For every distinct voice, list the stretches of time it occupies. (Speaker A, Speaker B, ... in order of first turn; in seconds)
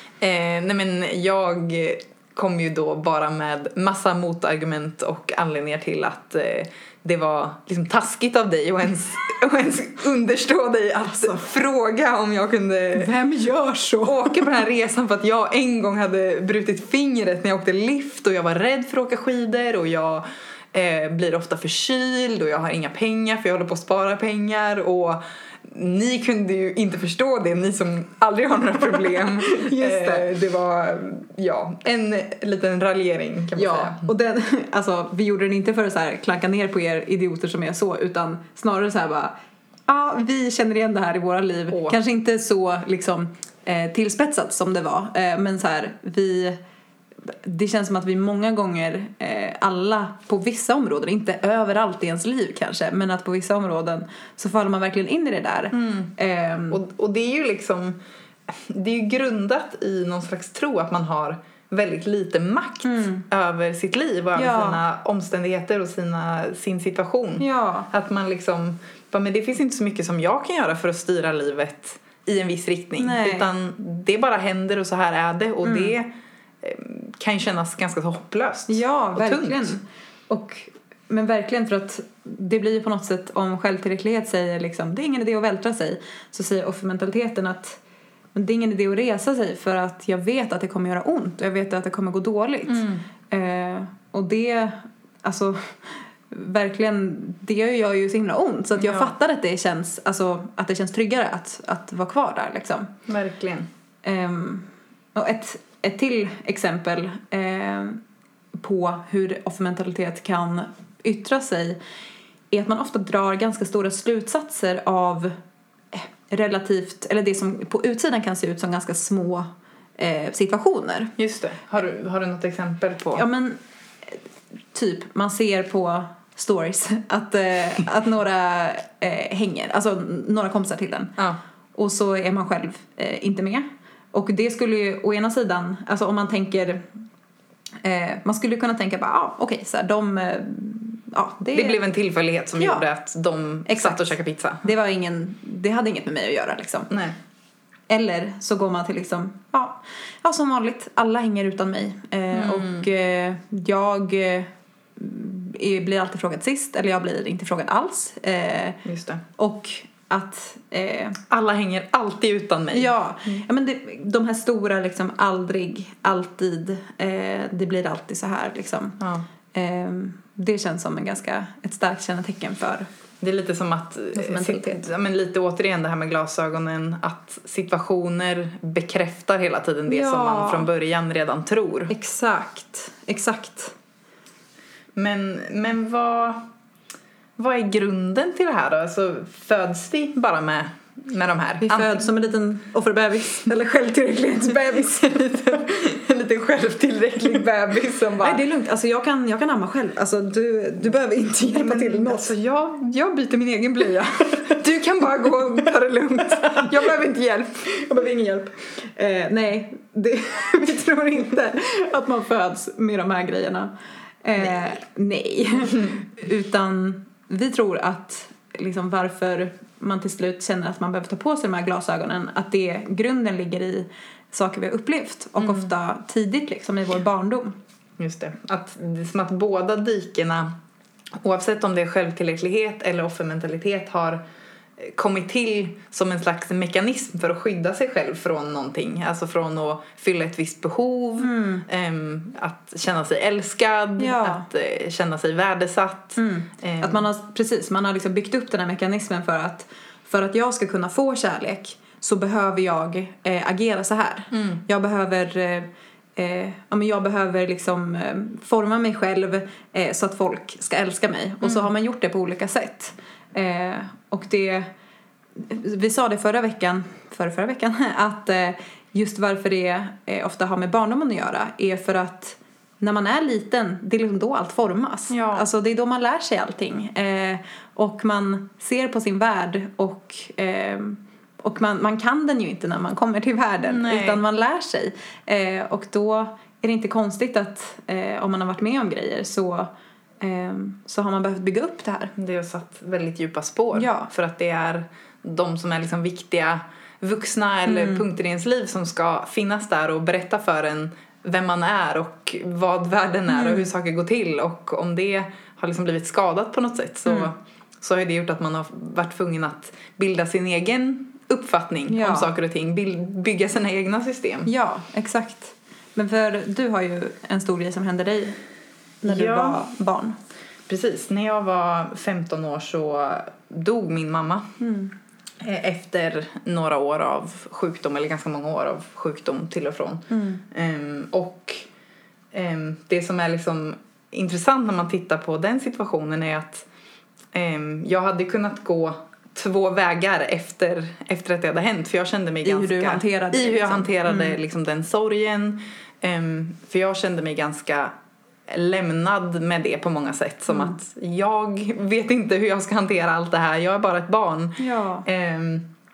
Speaker A: 0.2-13.1, 14.0-34.1, 41.7-42.0, 55.7-56.1, 56.7-76.1, 76.6-79.7, 92.7-93.0, 98.8-99.1, 103.1-103.7, 121.2-123.2, 141.5-144.7, 146.9-147.2, 152.3-152.8, 158.8-159.2, 161.3-162.9, 169.0-169.2, 173.2-181.9, 184.9-186.5, 187.4-192.1, 194.5-198.4, 201.5-207.8, 225.4-225.7, 228.0-230.5, 231.2-234.2, 234.8-247.0, 254.3-254.6, 275.1-275.4, 283.6-284.2, 292.1-314.5, 319.0-319.6, 320.7-324.5, 325.4-331.6, 332.3-336.6, 337.3-347.9, 348.5-355.7
Speaker B: 12.9-14.6, 29.1-30.3, 33.5-39.3, 39.9-46.6, 47.3-56.8, 62.8-63.3, 64.3-64.8, 67.4-67.9, 73.0-73.5, 75.6-75.9, 78.7-87.8, 88.3-102.9, 104.0-108.0, 108.6-111.8, 112.5-115.3, 115.9-121.1, 123.1-124.2, 124.7-131.1, 131.7-136.9, 137.8-141.8, 142.6-142.8, 143.7-144.1, 144.6-146.9, 147.9-158.8, 159.3-161.2, 162.7-169.0, 169.5-172.9, 174.1-174.9, 179.9-180.7, 181.9-183.7, 191.6-195.5, 198.2-202.3, 206.4-206.7, 207.7-213.7, 214.2-227.6, 241.2-241.6, 244.0-244.4, 246.2-264.7, 265.4-289.7, 290.2-292.1, 293.7-294.1, 297.7-298.0, 303.3-303.7, 311.9-312.3, 314.4-318.4, 319.0-320.2, 324.6-324.9, 330.1-330.4, 342.4-344.4, 350.5-350.8, 354.6-355.1